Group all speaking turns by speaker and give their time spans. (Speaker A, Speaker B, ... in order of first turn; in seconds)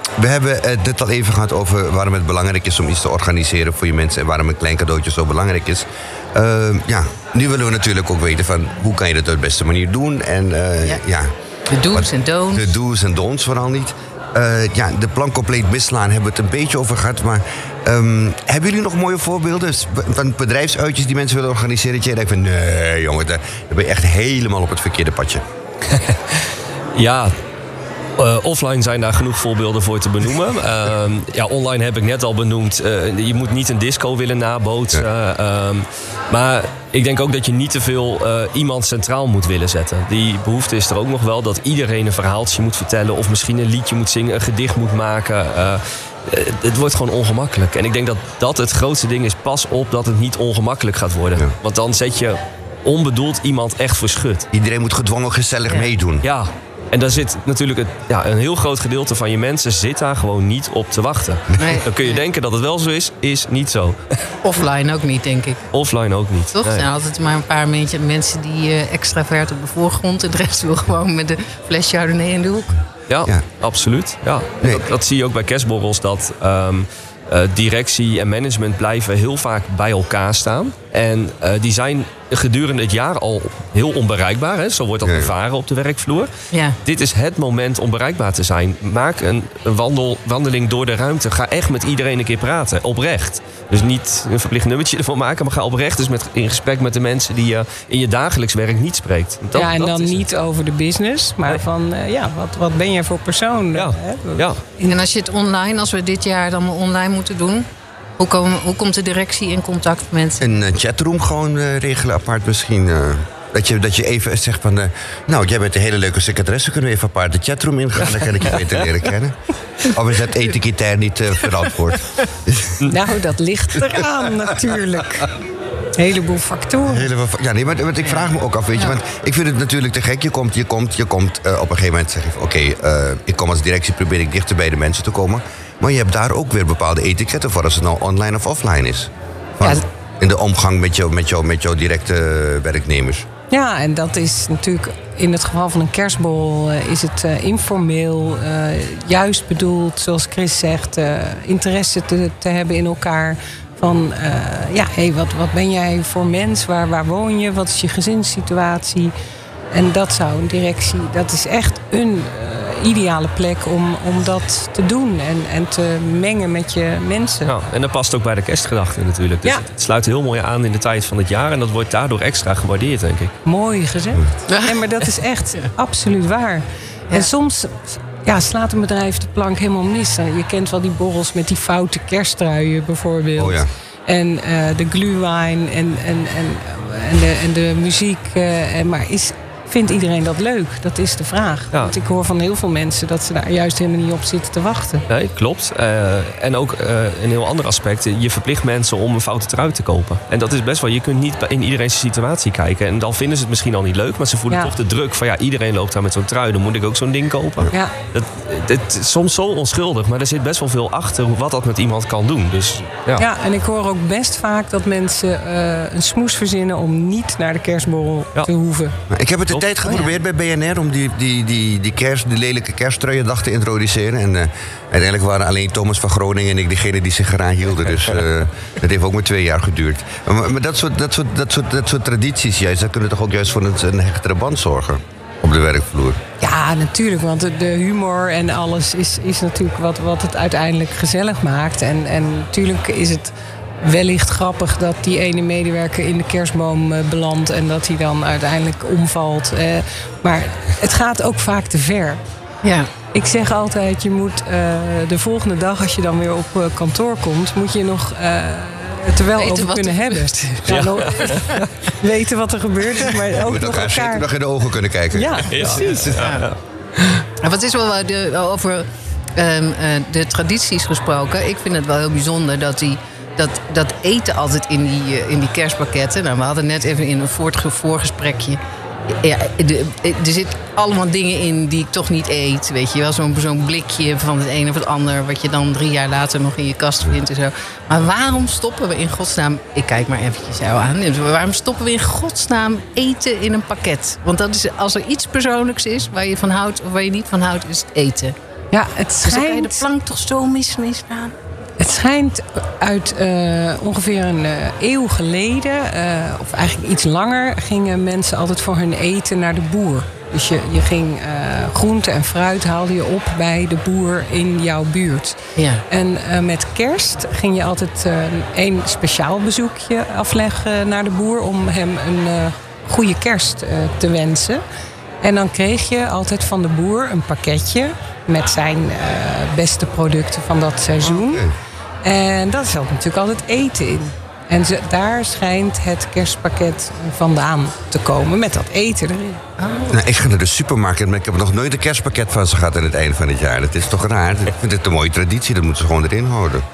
Speaker A: 0.2-11.3, 11.9-25.4, 54.5-56.3, 74.6-74.9, 85.0-85.3, 110.4-122.8, 126.8-143.3, 183.4-183.7, 219.1-236.2, 263.4-265.9, 331.1-331.5, 339.9-346.6
Speaker B: 11.7-12.8, 61.6-62.2, 64.4-65.6, 66.5-72.8, 104.9-107.7, 108.2-110.4, 174.5-174.8, 252.6-252.9, 259.4-261.6, 266.0-266.5, 267.4-298.4, 299.2-301.4, 315.6-315.8, 339.6-340.0
Speaker C: 25.9-27.3, 28.2-54.5, 56.2-64.2, 65.7-66.9, 73.1-86.3, 86.8-100.2, 103.7-104.6, 167.4-173.4, 195.1-213.2, 219.5-220.1, 260.7-261.7, 265.5-267.2
Speaker D: 99.5-105.0, 122.8-125.3, 126.0-127.1, 143.5-159.1, 159.7-167.6, 173.4-195.1, 213.2-219.0, 236.4-252.2, 253.1-264.3, 265.1-266.2, 298.7-299.9, 301.8-315.4, 315.9-324.6, 325.2-331.4, 332.0-339.4